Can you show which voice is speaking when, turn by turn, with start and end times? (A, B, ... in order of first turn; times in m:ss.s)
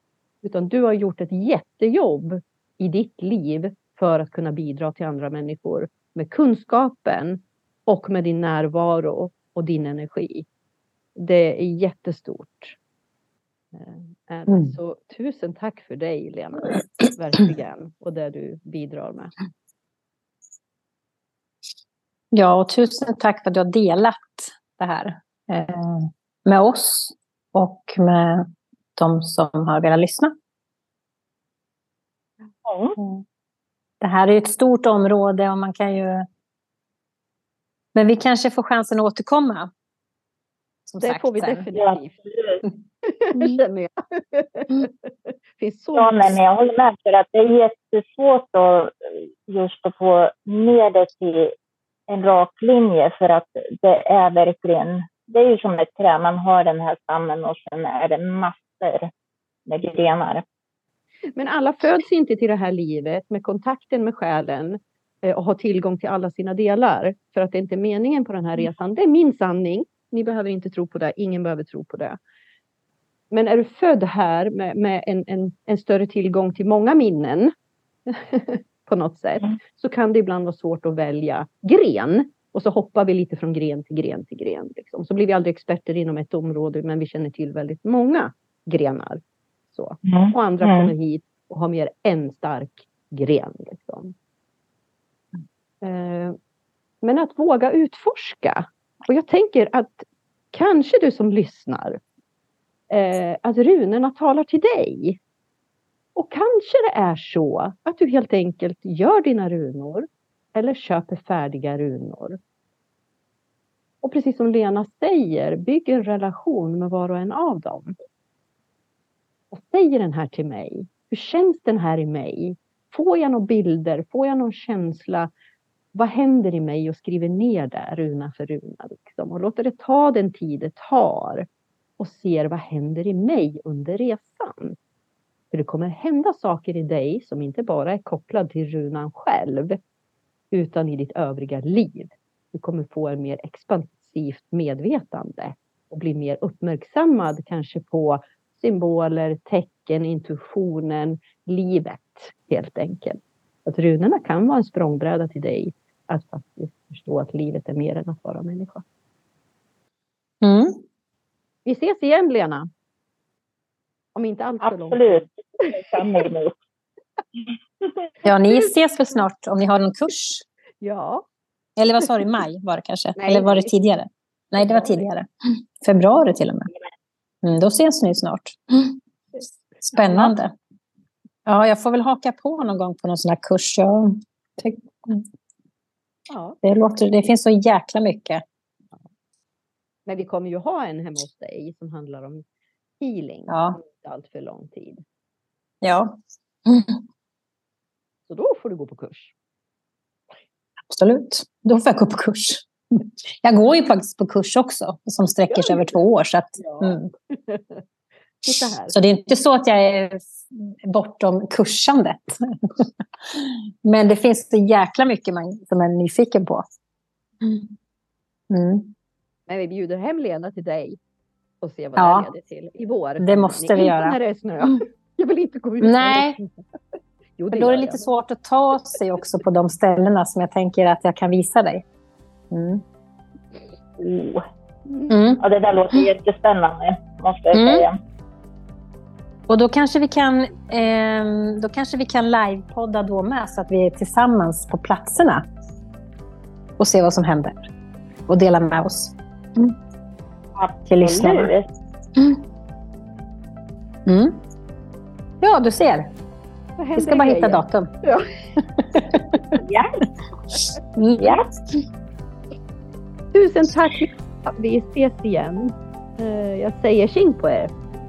0:00.4-0:10.4 A
0:11.2-0:12.8 A
0:13.7-0:19.3 A
0:14.5-0:14.7 B
0:22.3-0:30.3 B
0:32.6-0:33.0 C
0:33.0-0:33.2 B
0:34.0-0:36.2 B
0:37.9-0:39.7 B
0:40.9-0:41.7 B
0:41.0-0:42.2 A
0:41.7-0:42.6 C
0:43.0-0:46.4 A
0:46.0-0:51.5 C
0:52.1-0:59.1 C
0:59.6-1:00.4 C
1:01.4-1:12.2 A
1:13.3-1:17.5 A
1:18.1-1:34.1 A
1:30.0-1:30.9 C
1:35.8-1:36.4 A
1:37.0-1:42.0 A
1:42.9-1:45.2 A
1:46.2-1:52.4 A
1:54.0-1:57.9 A
1:59.5-2:05.3 A
2:05.9-2:11.5 A
2:12.0-2:14.8 A
2:15.5-2:19.8 A
2:20.5-2:38.8 A
2:40.4-2:40.8 B
2:41.6-2:42.7 A
2:44.1-2:45.7 A
2:44.6-2:46.6 C
2:48.2-2:50.4 B
2:50.8-2:51.3 A
2:51.8-2:56.7 B
2:53.2-2:53.7 A
2:54.5-2:55.1 A
2:57.4-2:59.0 B
2:59.9-3:00.5 B
3:00.0-3:00.3 A
3:01.4-3:05.3 B
3:06.3-3:06.6 A
3:06.6-3:08.4 B
3:10.1-3:12.4 A
3:13.0-3:15.0 A
3:13.5-3:13.8 B
3:15.8-3:16.1 B
3:16.6-3:17.0 B
3:18.3-3:19.3 A
3:20.9-3:27.1 B
3:25.5-3:26.0 A
3:26.6-3:27.8 A
3:28.4-3:28.9 A
3:28.9-3:36.6 B
3:37.4-3:37.7 B
3:38.5-3:38.9 B
3:39.5-3:41.0 A
3:41.6-3:46.6 A
3:42.0-3:42.3 B
3:43.2-3:44.8 B
3:45.8-3:46.4 B
3:47.4-3:48.1 A
3:47.5-3:51.8 B
3:52.5-3:52.8 B
3:54.0-3:54.4 C
3:54.9-3:55.1 A
3:55.1-3:55.4 B
3:55.4-3:57.9 C
3:57.5-3:57.8 B
3:59.5-4:05.4 B
4:06.8-4:07.7 B
4:08.3-4:09.8 B
4:10.6-4:11.6 C
4:10.8-4:11.5 B
4:14.0-4:14.4 B
4:15.4-4:16.1 B
4:16.8-4:18.3 A
4:17.0-4:17.9 B
4:18.8-4:19.6 B
4:19.6-4:19.9 C
4:20.9-4:21.8 B
4:23.3-4:27.7 A